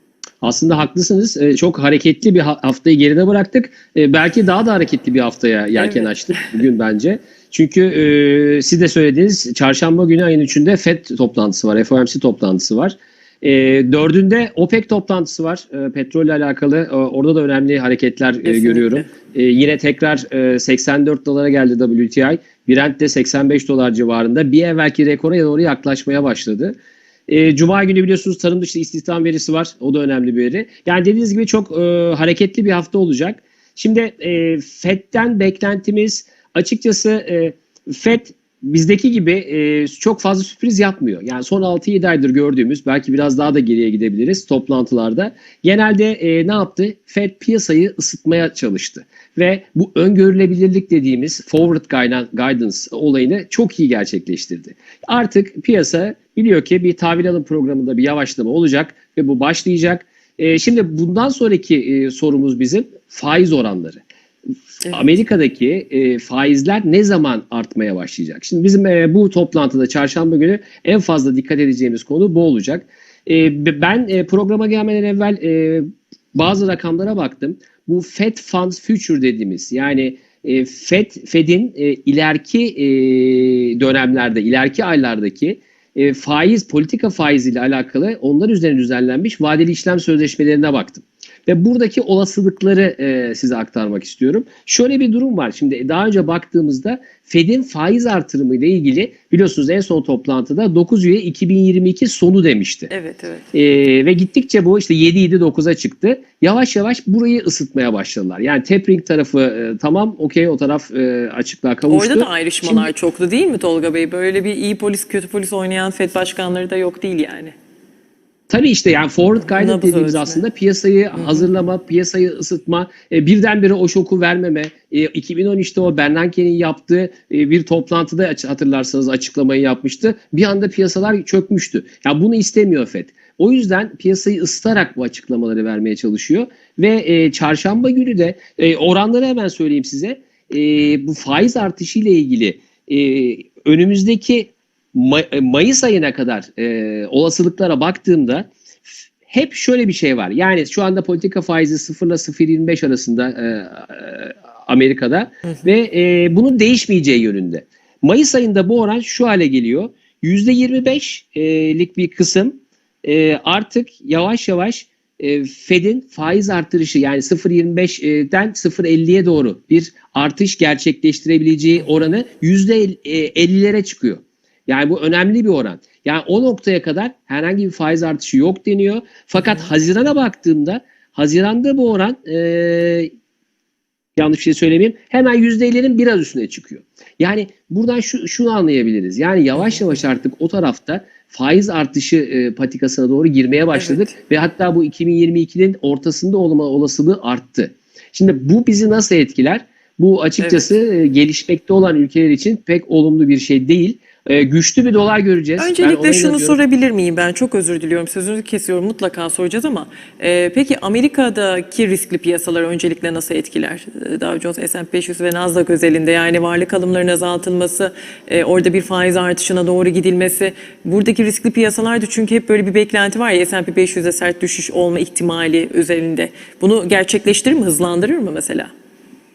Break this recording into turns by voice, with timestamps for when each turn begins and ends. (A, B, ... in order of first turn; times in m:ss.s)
0:00.4-0:26.8 A
0:05.8-0:06.1 B
0:18.4-0:19.1 B
0:27.3-1:04.0 A
1:04.8-1:05.2 B
1:04.9-1:42.9 A
1:42.9-1:43.4 B
1:43.5-1:52.9 A
1:51.9-1:57.5 B
1:58.5-2:28.5 A
1:59.5-2:00.4 B
2:01.1-2:01.5 B
2:29.3-3:03.1 A
3:04.2-3:26.6 A
3:13.8-3:14.2 B
3:20.4-3:20.7 B
3:25.6-3:48.7 B